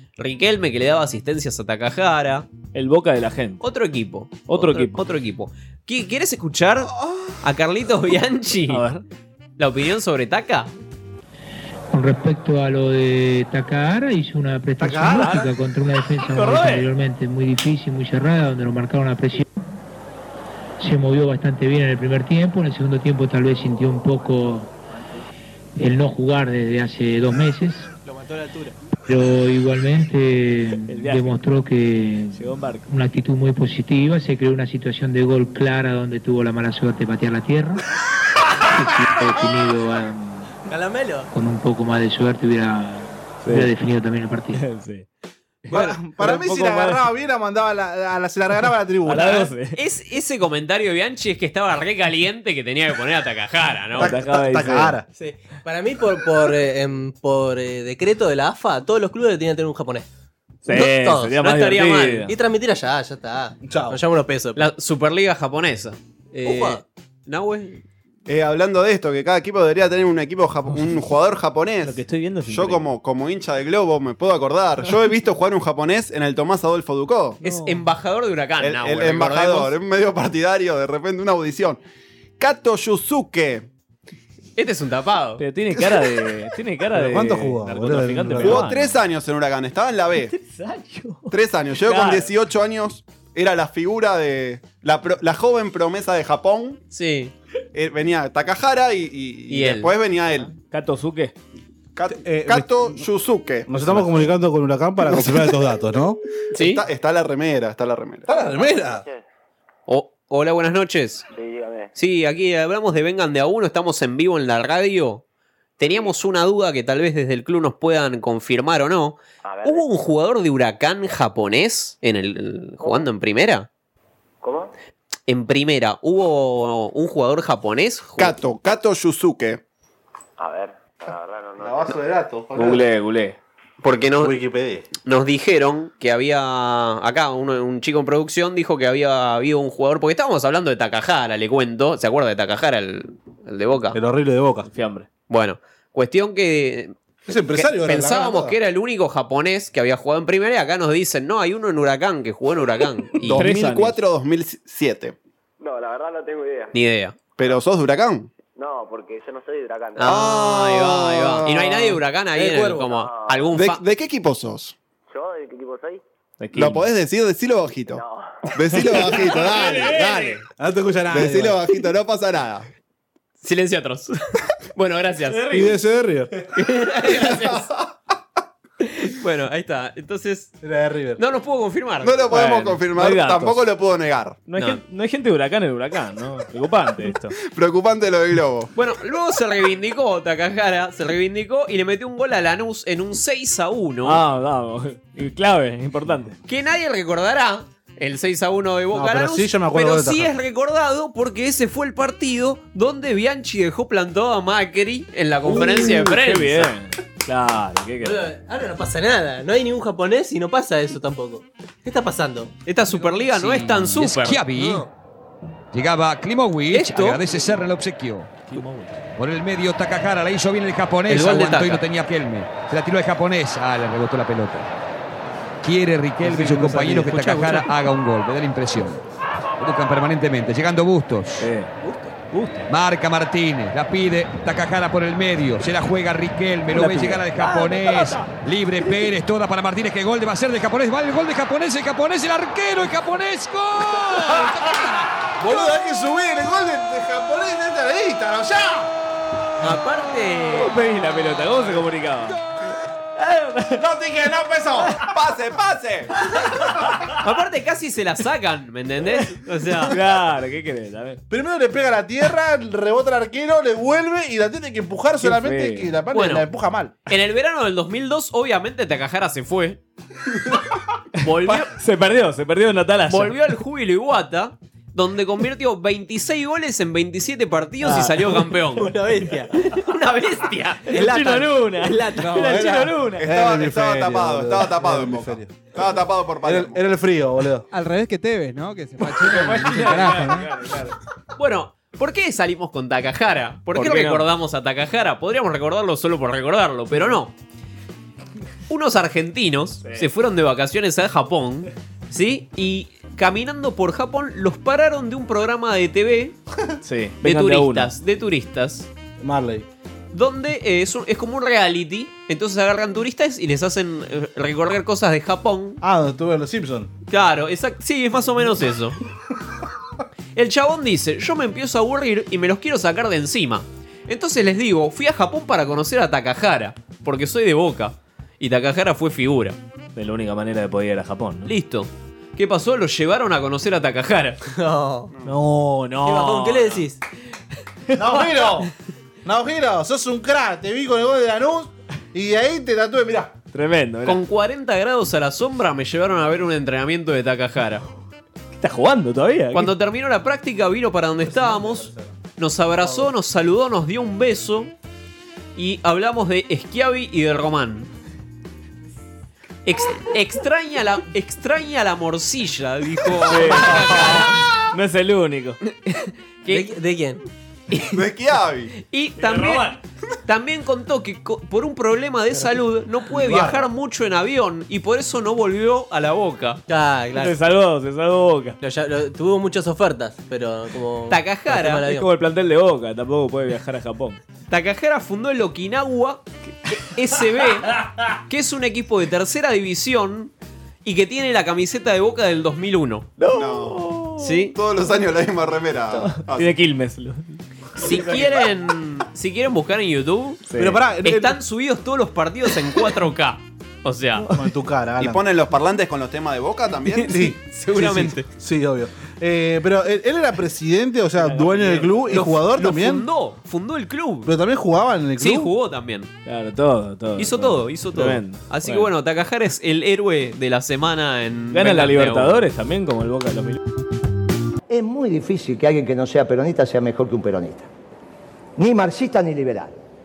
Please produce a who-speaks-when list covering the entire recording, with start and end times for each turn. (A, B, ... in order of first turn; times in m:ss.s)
0:00.2-0:02.5 A
0:02.7-0:03.6 B
0:03.6-0:06.9 A
0:04.5-0:05.0 B
0:07.4-0:08.8 A
0:08.7-0:09.0 B
0:09.6-0:10.7 A
0:11.9-0:19.4 C
0:14.8-0:15.5 D
0:15.1-0:15.5 B
0:16.2-0:16.9 B
0:20.8-0:24.7 C
0:25.8-0:27.9 C
0:28.1-0:28.7 E
0:29.1-0:37.8 C
0:30.9-0:31.4 B
0:32.3-0:32.9 B
0:38.6-0:40.5 C
0:40.7-0:41.3 E
0:41.3-0:44.6 C
0:43.4-0:43.7 B
0:44.5-0:45.0 B
0:45.6-0:47.0 B
0:45.7-0:49.5 D
0:49.0-0:49.8 B
0:49.8-0:54.2 A
0:54.0-0:55.0 B
0:54.0-0:55.0 D
0:55.1-1:00.1 E
1:00.6-1:02.3 B
1:00.7-1:04.6 E
1:01.5-1:02.2 A
1:03.6-1:04.0 D
1:04.6-1:07.8 A
1:06.3-1:06.8 E
1:08.3-1:17.4 F
1:11.8-1:12.9 B
1:17.4-1:17.8 B
1:17.4-1:19.7 A
1:18.6-1:21.8 F
1:22.4-1:23.7 F
1:24.6-1:25.4 A
1:25.4-1:29.0 B
1:26.9-1:28.6 D
1:28.4-1:30.3 F
1:30.3-1:31.3 B
1:31.3-1:36.8 F
1:31.8-1:32.3 B
1:36.9-1:37.3 A
1:37.7-1:40.5 F
1:39.5-1:39.9 A
1:40.6-1:41.3 B
1:41.9-1:44.0 F
1:42.1-1:43.0 D
1:43.7-1:46.2 D
1:46.5-1:46.8 A
1:46.5-1:48.3 F
1:48.2-1:49.0 D
1:48.4-1:49.2 G
1:49.9-1:51.2 A
1:51.3-1:51.9 G
1:52.0-1:55.2 A
1:55.8-2:03.7 A
1:59.4-1:59.9 G
2:02.8-2:03.1 G
2:04.4-2:04.7 G
2:05.3-2:08.4 A
2:08.2-2:09.6 F
2:10.4-2:12.0 G
2:11.6-2:12.8 D
2:12.5-2:13.4 B
2:13.8-2:14.4 A
2:14.2-2:14.8 D
2:15.0-2:24.0 A
2:23.9-2:24.7 D
2:24.7-2:25.1 B
2:25.3-2:26.9 A
2:27.3-2:28.6 D
2:27.5-2:33.5 A
2:33.2-2:35.2 F
2:33.3-2:34.0 B
2:35.6-2:36.7 G
2:36.7-2:37.1 A
2:37.4-2:38.3 F
2:38.5-2:40.2 G
2:40.0-2:43.8 A
2:40.0-2:42.0 F
2:42.4-2:42.8 E
2:42.8-2:43.4 G
2:43.5-2:44.7 F
2:45.1-2:46.0 G
2:46.4-2:46.9 B
2:46.5-2:48.0 F
2:47.9-2:48.2 G
2:48.5-2:50.4 F
2:48.9-2:50.3 B
2:50.6-2:51.6 D
2:51.1-2:52.7 F
2:53.4-2:54.1 A
2:54.7-2:55.7 A
2:55.5-2:56.3 D
2:56.5-2:57.7 A
2:58.8-3:00.5 A
3:00.6-3:01.2 D
3:01.2-3:02.5 A
3:02.0-3:04.4 F
3:02.3-3:03.7 B
3:04.4-3:07.4 B
3:07.4-3:08.7 F
3:08.8-3:14.2 A
3:14.0-3:16.3 B
3:16.5-3:26.7 A
3:18.9-3:20.3 D
3:25.4-3:28.3 B
3:28.0-3:32.5 E
3:32.6-3:34.4 A
3:33.3-3:34.8 H
3:34.5-3:34.9 D
3:35.7-3:38.3 H
3:36.7-3:37.2 A
3:38.4-3:39.0 B
3:39.2-3:44.7 H
3:41.1-3:41.8 A
3:45.6-3:49.0 H
3:46.2-3:47.6 B
3:46.3-3:46.8 D
3:49.6-3:51.5 H
3:51.4-3:52.7 B
3:52.7-4:04.8 H
3:56.7-3:58.4 B
4:04.3-4:04.8 D
4:05.3-4:08.9 D
4:09.6-4:10.7 A
4:10.5-4:12.4 B
4:13.2-4:13.8 B
4:13.7-4:15.0 D
4:15.0-4:16.3 F
4:17.2-4:20.0 A
4:19.1-4:21.2 B
4:21.3-4:26.9 D
4:25.2-4:25.9 B
4:26.1-4:26.4 A
4:27.1-4:29.8 A
4:31.2-4:31.7 A
4:31.7-4:33.5 B
4:33.1-4:38.9 A
4:37.8-4:38.5 B
4:38.8-4:39.5 E
4:39.7-4:41.6 A
4:40.9-4:43.3 B
4:41.0-4:42.9 E
4:42.3-4:45.5 D
4:43.2-4:46.8 F
4:46.4-4:47.7 D
4:47.7-4:50.5 I
4:49.0-4:50.9 B
4:51.4-4:57.3 A
4:53.7-4:54.3 B
4:58.7-5:06.4 A
4:59.8-5:00.1 B
5:06.8-5:07.9 B
5:07.2-5:08.9 A
5:09.2-5:09.6 D
5:10.1-5:15.8 A
5:15.8-5:16.9 D
5:17.1-5:19.0 A
5:20.3-5:29.6 A
5:29.9-5:31.5 B
5:31.4-5:34.4 A
5:34.5-5:35.1 E
5:35.1-5:35.4 F
5:35.2-5:36.8 B
5:36.0-5:37.0 E
5:37.9-5:38.4 B
5:37.9-5:38.7 D
5:39.2-5:43.4 D
5:43.5-5:44.2 B
5:44.0-5:47.8 A
5:48.6-5:49.7 B
5:49.5-5:54.7 A
5:51.2-5:52.2 D
5:52.8-5:53.1 D
5:55.6-5:57.9 A
5:59.6-6:04.5 A
6:03.2-6:05.6 B
6:05.9-6:06.7 A
6:06.5-6:07.2 E
6:07.7-6:08.0 A
6:07.9-6:08.7 F
6:08.8-6:16.6 A
6:09.2-6:09.7 B
6:13.2-6:13.7 D
6:16.7-6:17.4 E
6:17.1-6:18.6 B
6:18.6-6:22.1 E
6:21.1-6:21.9 A
6:21.8-6:24.2 B
6:24.5-6:26.3 A
6:26.8-6:30.3 A
6:30.8-6:33.1 A
6:33.2-6:34.4 B
6:33.3-6:36.6 F
6:34.2-6:34.5 A
6:36.0-6:38.3 B
6:37.8-6:40.4 A
6:40.5-6:40.8 B
6:40.6-6:41.4 D
6:41.0-6:44.2 A
6:44.3-6:45.2 D
6:45.0-6:47.3 F
6:47.0-6:53.0 D
6:47.5-6:48.2 A
6:51.2-6:52.3 B
6:52.1-6:54.3 A
6:54.2-6:55.5 D
6:55.2-6:56.1 A
6:56.2-6:58.9 B
6:57.2-7:02.4 A
7:01.5-7:03.6 B
7:04.7-7:07.7 J
7:08.6-7:09.8 J